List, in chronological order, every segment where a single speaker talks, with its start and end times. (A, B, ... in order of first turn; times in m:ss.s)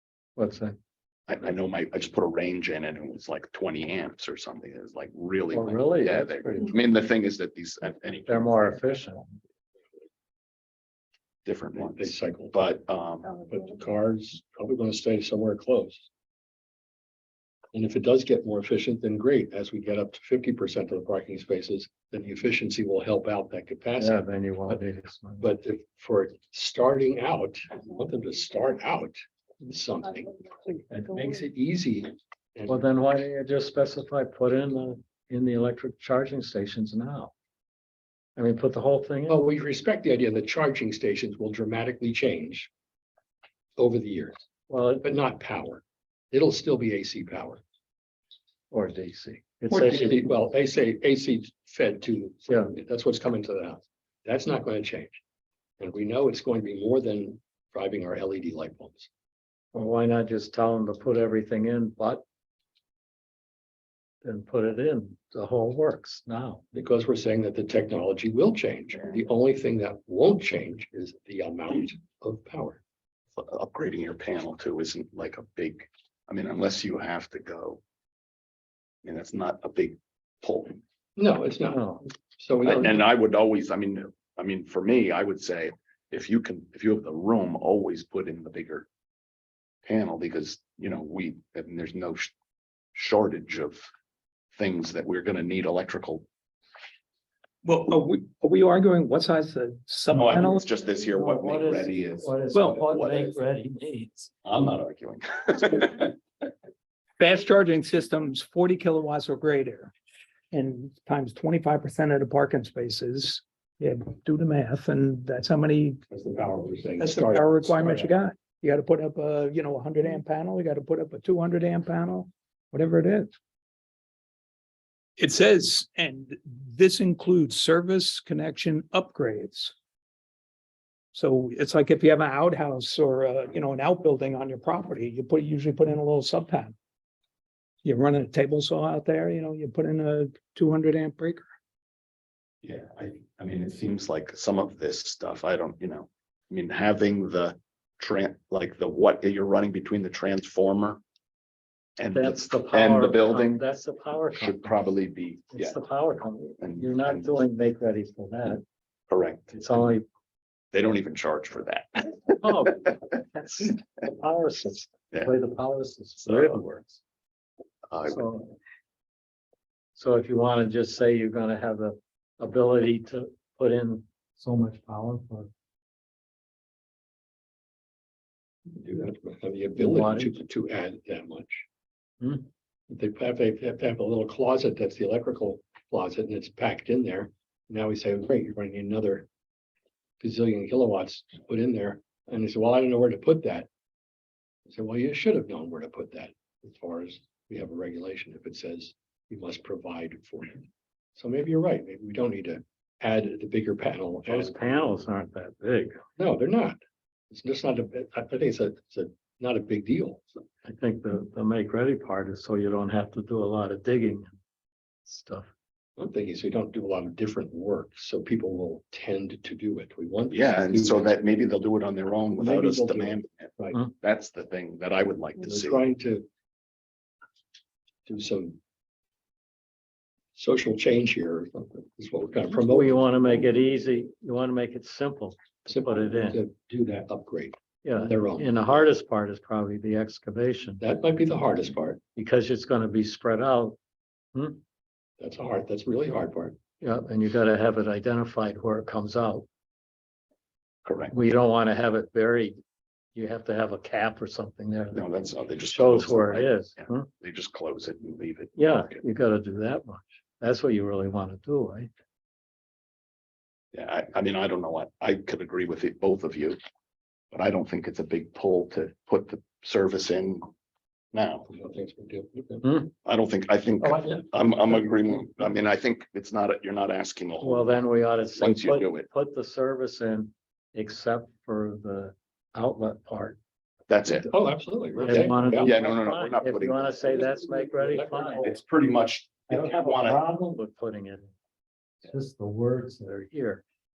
0:00.4-0:00.7 A
0:01.3-0:08.8 B
0:05.5-0:06.7 A
0:08.2-0:09.3 A
0:11.4-0:13.4 B
0:11.8-0:12.6 C
0:13.4-0:16.1 C
0:17.7-0:24.2 C
0:24.0-0:25.5 A
0:25.4-0:32.8 C
0:32.7-0:37.3 A
0:38.4-0:39.4 A
0:39.3-0:42.7 C
0:43.8-0:44.4 C
0:44.7-0:45.1 A
0:45.0-0:47.6 C
0:48.7-0:50.2 A
0:49.7-0:50.0 D
0:49.8-0:55.2 C
0:55.8-0:59.1 C
0:59.7-1:02.2 A
1:04.2-1:06.6 A
1:06.7-1:12.8 C
1:13.4-1:17.8 B
1:19.0-1:20.8 B
1:21.2-1:23.0 C
1:21.7-1:22.0 A
1:22.6-1:28.9 B
1:29.8-1:32.3 B
1:32.9-1:33.9 B
1:34.5-1:36.2 B
1:37.6-1:40.7 D
1:40.1-1:42.3 B
1:41.0-1:44.3 A
1:42.5-1:42.8 D
1:42.8-1:43.4 B
1:44.4-1:46.1 B
1:47.2-1:49.9 D
1:50.5-1:56.0 D
1:56.1-1:58.1 C
1:57.0-2:03.3 D
2:05.2-2:09.7 D
2:11.1-2:16.7 D
2:17.8-2:21.4 D
2:22.6-2:31.0 B
2:32.0-2:33.6 B
2:32.1-2:34.9 A
2:34.3-2:35.8 B
2:35.5-2:38.6 A
2:36.6-2:37.4 B
2:39.1-2:39.7 B
2:39.5-2:40.0 A
2:40.7-2:42.3 B
2:42.2-2:46.7 A
2:46.2-2:47.0 B
2:47.9-2:48.4 B
2:48.1-2:48.5 A
2:49.9-2:55.5 A
2:58.7-3:01.6 C
2:59.8-3:00.4 A
3:02.2-3:02.5 A
3:02.9-3:09.3 C
3:10.2-3:13.7 C
3:14.7-3:24.9 C
3:24.2-3:26.0 A
3:26.2-3:26.8 C
3:27.3-3:30.4 C
3:30.6-3:34.3 A
3:35.0-3:35.5 A
3:36.0-3:41.1 C
3:40.3-3:45.8 B
3:42.4-3:43.8 C
3:45.4-3:46.2 C
3:48.1-3:48.6 C
3:50.3-3:53.4 C
3:52.6-3:56.4 A
3:55.6-3:58.9 C
3:57.8-4:00.8 A
4:00.8-4:02.0 C
4:02.1-4:03.8 A
4:04.3-4:04.6 A
4:05.2-4:06.6 C
4:06.8-4:09.4 A
4:10.8-4:11.1 B
4:11.1-4:12.6 A
4:13.1-4:15.0 A
4:14.9-4:19.0 B
4:15.7-4:17.1 A
4:18.6-4:21.9 A
4:23.7-4:26.6 B
4:27.3-4:30.4 B
4:31.1-4:31.5 B
4:31.5-4:32.7 C
4:32.6-4:32.9 A
4:33.0-4:37.7 B
4:33.8-4:34.2 A
4:37.4-4:43.4 A
4:38.4-4:39.1 B
4:43.9-4:44.3 B
4:44.2-4:45.8 C
4:45.0-4:48.5 A
4:45.0-4:47.4 B
4:47.7-4:48.5 C
4:48.4-4:50.2 B
4:49.5-4:51.3 A
4:52.0-4:53.6 A